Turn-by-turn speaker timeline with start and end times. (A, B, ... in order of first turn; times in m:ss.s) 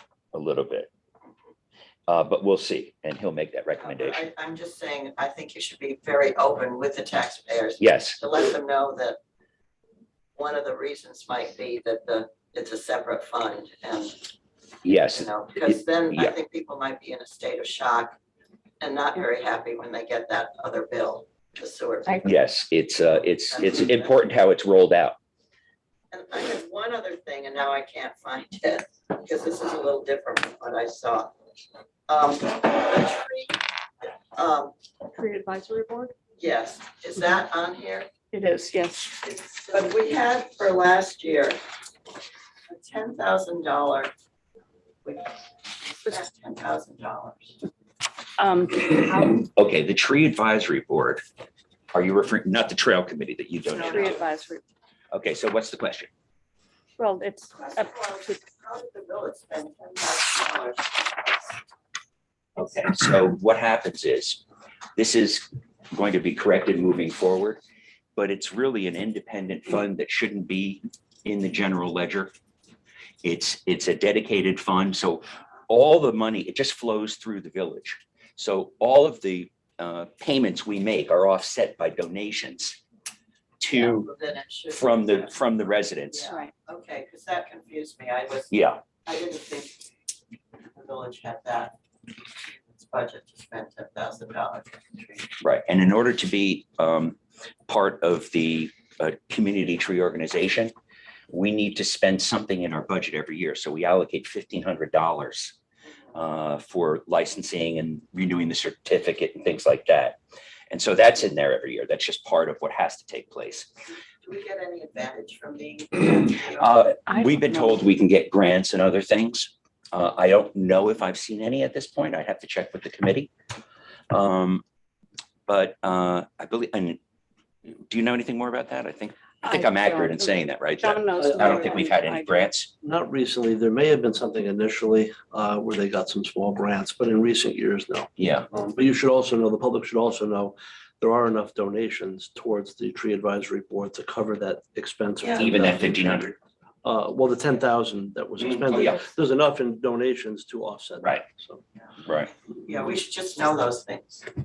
0:00.3-0:00.9 A
0:02.1-0:04.2 A
0:03.8-0:09.2 B
0:07.8-0:08.2 A
0:10.4-0:14.2 B
0:14.8-0:16.3 A
0:15.1-0:18.2 B
0:18.8-0:22.3 B
0:22.2-0:25.2 A
0:23.2-0:24.1 B
0:26.1-0:31.3 B
0:32.1-0:33.6 B
0:34.3-0:34.7 B
0:35.1-0:36.1 C
0:36.4-0:38.1 B
0:38.3-0:39.2 C
0:39.2-0:41.6 B
0:42.7-0:44.1 B
0:45.0-0:47.6 B
0:48.4-0:49.4 C
0:49.0-0:51.2 A
0:51.9-0:54.2 A
0:53.7-0:54.2 B
0:53.8-0:54.6 C
0:55.1-0:56.1 A
0:57.0-0:58.4 C
0:57.6-1:01.5 B
1:02.6-1:04.4 A
1:05.0-1:07.6 A
1:08.2-1:12.3 A
1:13.2-1:22.8 A
1:23.6-1:24.0 A
1:23.7-1:25.3 B
1:24.7-1:26.3 A
1:26.1-1:28.5 B
1:26.2-1:26.5 C
1:28.5-1:28.8 A
1:29.0-1:29.9 B
1:30.8-1:35.3 B
1:35.4-1:40.7 A
1:41.3-1:45.6 A
1:46.1-1:50.2 A
1:50.7-1:53.7 A
1:54.2-1:56.7 B
1:56.6-2:03.3 A
1:57.1-1:57.8 C
2:04.1-2:04.6 A
2:05.5-2:07.0 A
2:07.9-2:12.7 A
2:09.4-2:12.5 C
2:11.2-2:11.8 D
2:12.8-2:31.6 D
2:18.2-2:18.5 A
2:25.4-2:26.3 A
2:28.5-2:29.0 A
2:32.6-2:34.2 B